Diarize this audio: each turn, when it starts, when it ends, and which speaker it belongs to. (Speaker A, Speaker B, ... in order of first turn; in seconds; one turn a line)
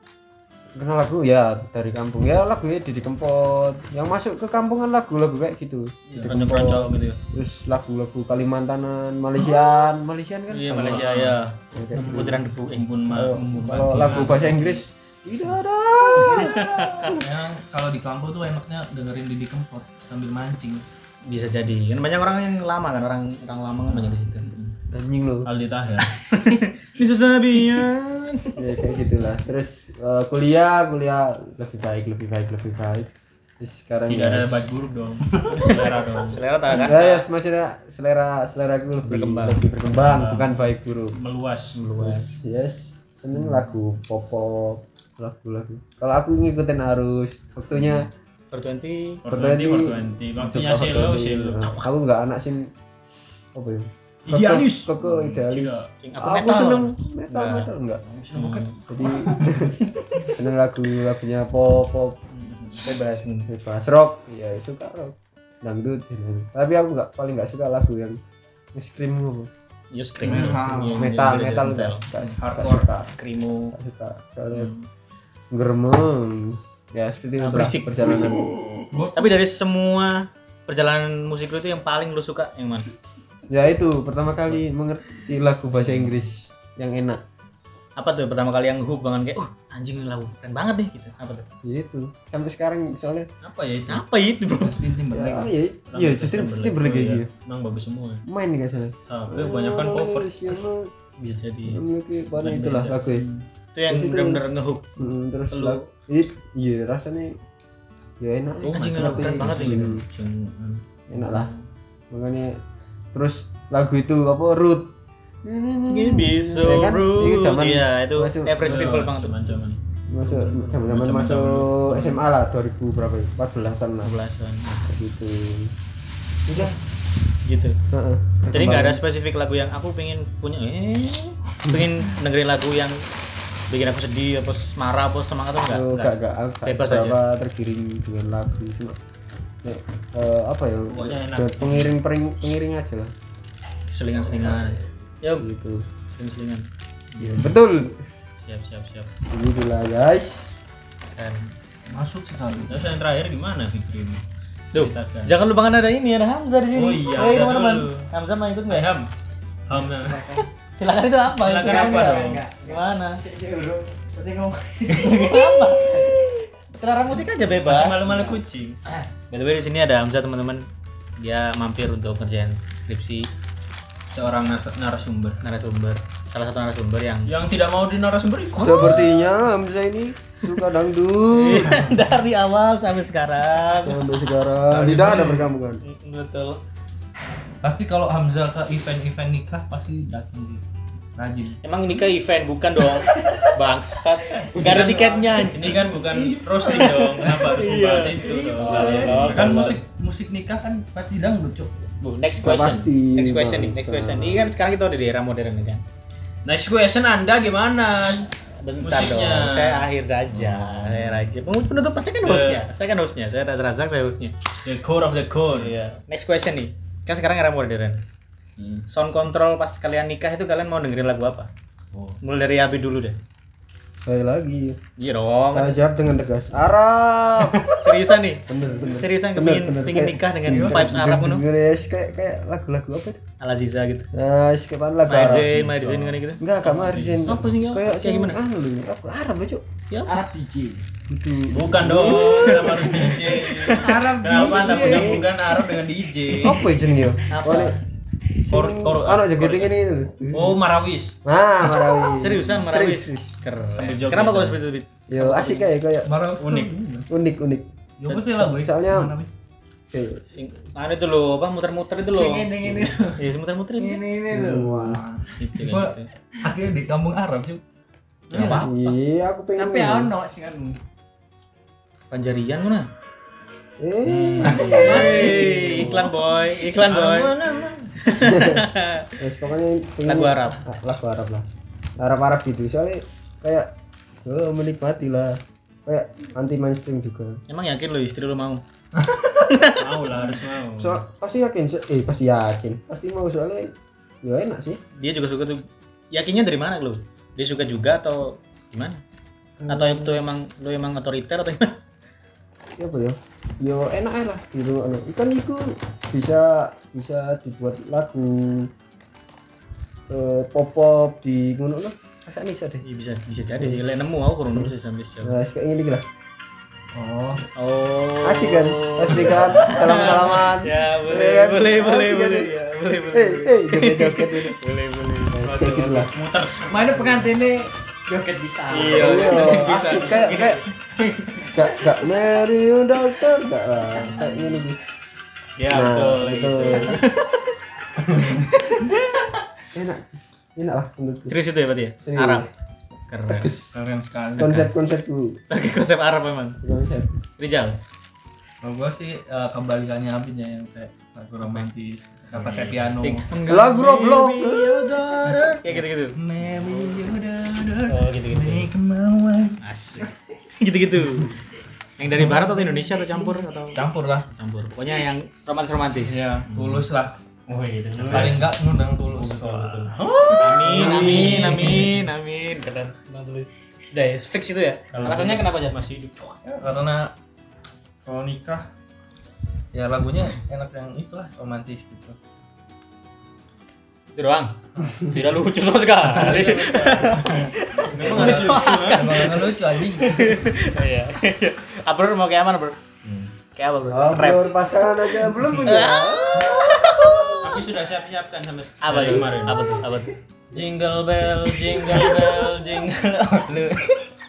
Speaker A: 0.8-11.1
Speaker B: 6.1-7.1
Speaker C: 6.3-7.2
Speaker C: 10.5-12.8
Speaker B: 10.8-11.4
Speaker A: 11.7-12.4
Speaker B: 11.9-14.8
Speaker A: 13.1-17.2
Speaker C: 16.2-17.1
Speaker D: 17.1-20.8
Speaker C: 21.3-24.5
Speaker B: 23.9-24.8
Speaker A: 24.9-25.5
Speaker B: 25.4-26.1
Speaker C: 26.1-28.6
Speaker A: 28.6-34.7
Speaker B: 34.1-36.4
Speaker C: 35.7-37.3
Speaker A: 36.7-41.2
Speaker C: 39.0-39.6
Speaker B: 39.9-40.5
Speaker B: 41.1-41.8
Speaker C: 41.8-42.3
Speaker A: 42.0-48.1
Speaker C: 48.5-49.2
Speaker B: 49.2-51.9
Speaker A: 49.3-52.7
Speaker A: 53.5-58.0
Speaker B: 54.3-55.9
Speaker C: 56.0-57.7
Speaker B: 58.1-59.5
Speaker C: 58.3-58.7
Speaker A: 58.9-62.2
Speaker C: 59.4-60.3
Speaker B: 62.4-62.8
Speaker C: 62.8-63.5
Speaker A: 63.5-68.2
Speaker A: 68.7-69.5
Speaker C: 69.9-72.3
Speaker D: 70.2-71.1
Speaker B: 70.3-70.8
Speaker A: 70.8-73.1
Speaker D: 72.4-72.9
Speaker C: 73.0-73.8
Speaker A: 73.7-74.7
Speaker C: 74.5-74.9
Speaker A: 75.5-78.5
Speaker C: 77.4-78.5
Speaker D: 78.9-79.3
Speaker C: 79.1-82.8
Speaker A: 83.5-87.2
Speaker C: 88.0-91.5
Speaker A: 91.6-93.3
Speaker B: 93.4-94.0
Speaker C: 93.9-94.8
Speaker D: 94.6-95.5
Speaker A: 95.1-97.3
Speaker B: 95.9-98.2
Speaker A: 98.3-100.9
Speaker B: 99.1-100.6
Speaker C: 101.2-101.8
Speaker A: 101.7-103.3
Speaker B: 102.4-103.0
Speaker C: 103.2-104.9
Speaker A: 103.9-104.4
Speaker A: 105.0-107.4
Speaker C: 105.5-105.9
Speaker A: 108.2-110.0
Speaker B: 108.7-110.8
Speaker C: 108.7-110.0
Speaker A: 111.1-111.5
Speaker C: 111.2-111.6
Speaker A: 112.1-112.6
Speaker A: 113.1-114.9
Speaker A: 115.5-118.9
Speaker C: 115.9-119.6
Speaker B: 118.6-122.2
Speaker A: 120.1-124.1
Speaker C: 124.0-124.9
Speaker A: 124.8-125.7
Speaker A: 126.5-126.8
Speaker C: 127.4-127.8
Speaker A: 127.9-129.0
Speaker C: 128.5-133.0
Speaker C: 133.7-137.2
Speaker A: 135.7-139.0
Speaker A: 139.6-143.1
Speaker B: 140.9-142.0
Speaker C: 143.9-145.4
Speaker A: 145.4-145.8
Speaker C: 146.1-147.4
Speaker A: 147.2-148.1
Speaker C: 148.4-149.1
Speaker A: 149.3-150.5
Speaker C: 151.2-151.5
Speaker D: 151.9-152.8
Speaker B: 152.7-154.2
Speaker B: 154.7-155.4
Speaker C: 154.7-158.8
Speaker B: 156.7-158.1
Speaker B: 158.7-159.1
Speaker B: 159.7-160.3
Speaker E: 159.7-160.5
Speaker C: 160.6-163.2
Speaker B: 161.4-162.5
Speaker E: 161.6-166.1
Speaker C: 164.9-168.3
Speaker B: 167.6-168.8
Speaker C: 169.3-170.7
Speaker C: 171.2-173.3
Speaker B: 174.1-175.4
Speaker C: 175.4-177.3
Speaker B: 177.3-179.1
Speaker A: 178.6-181.9
Speaker D: 178.7-178.9
Speaker C: 181.3-184.0
Speaker A: 183.8-185.8
Speaker D: 184.7-185.4
Speaker C: 185.8-186.6
Speaker D: 187.6-190.6
Speaker D: 191.2-191.6
Speaker C: 191.6-195.8
Speaker D: 192.8-193.5
Speaker D: 194.3-197.5
Speaker B: 194.6-199.8
Speaker C: 196.6-199.8
Speaker D: 198.6-201.8
Speaker C: 202.0-205.8
Speaker A: 202.4-204.5
Speaker B: 206.4-211.2
Speaker C: 208.6-214.3
Speaker B: 212.2-212.7
Speaker B: 214.6-215.8
Speaker C: 215.5-218.0
Speaker B: 218.6-218.8
Speaker C: 218.9-221.5
Speaker B: 221.9-222.2
Speaker C: 222.2-223.2
Speaker A: 224.0-224.8
Speaker C: 225.0-225.8
Speaker A: 225.5-233.2
Speaker C: 227.8-231.4
Speaker D: 230.4-230.9
Speaker C: 233.4-234.1
Speaker A: 234.1-235.8
Speaker C: 235.1-236.5
Speaker B: 235.3-236.1
Speaker A: 236.4-239.6
Speaker B: 236.6-237.8
Speaker C: 237.2-238.4
Speaker C: 239.9-240.2
Speaker E: 240.1-240.4
Speaker D: 240.2-240.8
Speaker A: 241.1-243.4
Speaker B: 241.5-246.8
Speaker C: 243.1-244.2
Speaker E: 243.7-245.8
Speaker A: 244.7-245.3
Speaker A: 246.4-247.8
Speaker C: 247.3-247.8
Speaker A: 248.4-250.6
Speaker B: 248.5-249.7
Speaker B: 250.3-251.2
Speaker A: 251.2-253.3
Speaker C: 252.1-254.9
Speaker B: 253.8-254.6
Speaker A: 255.1-256.1
Speaker D: 256.1-257.1
Speaker B: 256.4-256.8
Speaker A: 257.1-259.1
Speaker D: 258.0-259.3
Speaker A: 259.9-260.2
Speaker C: 260.3-262.6
Speaker E: 262.1-264.8
Speaker C: 263.2-264.0
Speaker A: 264.3-265.0
Speaker D: 264.6-267.6
Speaker C: 265.4-266.1
Speaker B: 268.3-268.7
Speaker D: 268.3-268.7
Speaker C: 268.3-268.9
Speaker A: 268.5-270.1
Speaker E: 269.6-270.8
Speaker C: 272.1-272.9
Speaker A: 273.8-276.1
Speaker C: 274.1-277.4
Speaker D: 274.4-275.2
Speaker B: 274.4-275.8
Speaker B: 276.7-278.2
Speaker C: 278.0-279.1
Speaker A: 278.3-281.4
Speaker C: 280.1-280.6
Speaker A: 282.0-283.7
Speaker A: 284.2-287.4
Speaker C: 287.5-288.6
Speaker C: 289.2-290.1
Speaker B: 289.8-291.0
Speaker A: 290.8-293.7
Speaker A: 294.2-294.8
Speaker C: 295.0-299.0
Speaker A: 299.6-300.2
Speaker C: 299.7-301.8
Speaker A: 302.8-308.7
Speaker A: 310.1-312.8
Speaker C: 312.8-315.4
Speaker A: 315.2-316.1
Speaker D: 316.9-317.4
Speaker C: 317.6-325.4
Speaker A: 318.2-322.6
Speaker A: 323.1-324.6
Speaker A: 325.3-326.1
Speaker B: 325.4-327.3
Speaker E: 326.7-329.6
Speaker C: 328.7-331.5
Speaker B: 328.9-330.6
Speaker A: 329.0-330.6
Speaker A: 331.5-334.8
Speaker C: 334.2-334.6
Speaker B: 335.6-337.0
Speaker A: 335.7-337.0
Speaker C: 336.9-337.4
Speaker D: 338.1-338.4
Speaker C: 338.2-338.9
Speaker A: 339.7-341.4
Speaker C: 341.3-342.5
Speaker A: 342.0-342.5
Speaker C: 343.1-343.6
Speaker A: 343.4-343.7
Speaker D: 343.7-344.8
Speaker A: 344.4-345.4
Speaker C: 344.4-344.7
Speaker C: 345.5-346.6
Speaker A: 346.6-347.2
Speaker C: 347.4-347.8
Speaker D: 348.6-353.4
Speaker C: 351.4-351.7
Speaker B: 352.3-353.1
Speaker C: 353.0-356.2
Speaker A: 353.4-355.4
Speaker D: 355.2-360.1
Speaker C: 357.9-358.7
Speaker C: 359.6-361.4
Speaker D: 361.0-361.4
Speaker C: 362.0-366.8
Speaker D: 362.1-364.3
Speaker D: 365.9-367.2
Speaker B: 367.5-371.8
Speaker C: 367.9-368.5
Speaker D: 368.1-372.0
Speaker C: 370.4-375.8
Speaker B: 374.9-376.4
Speaker D: 376.4-377.1
Speaker D: 378.0-378.7
Speaker D: 379.7-382.2
Speaker C: 384.2-392.8
Speaker D: 384.8-385.1
Speaker D: 386.0-390.4
Speaker B: 387.9-389.4
Speaker B: 393.0-393.3
Speaker C: 393.5-397.4
Speaker A: 393.9-397.5
Speaker B: 397.4-399.8
Speaker C: 398.8-400.2
Speaker B: 400.5-404.0
Speaker C: 401.9-402.3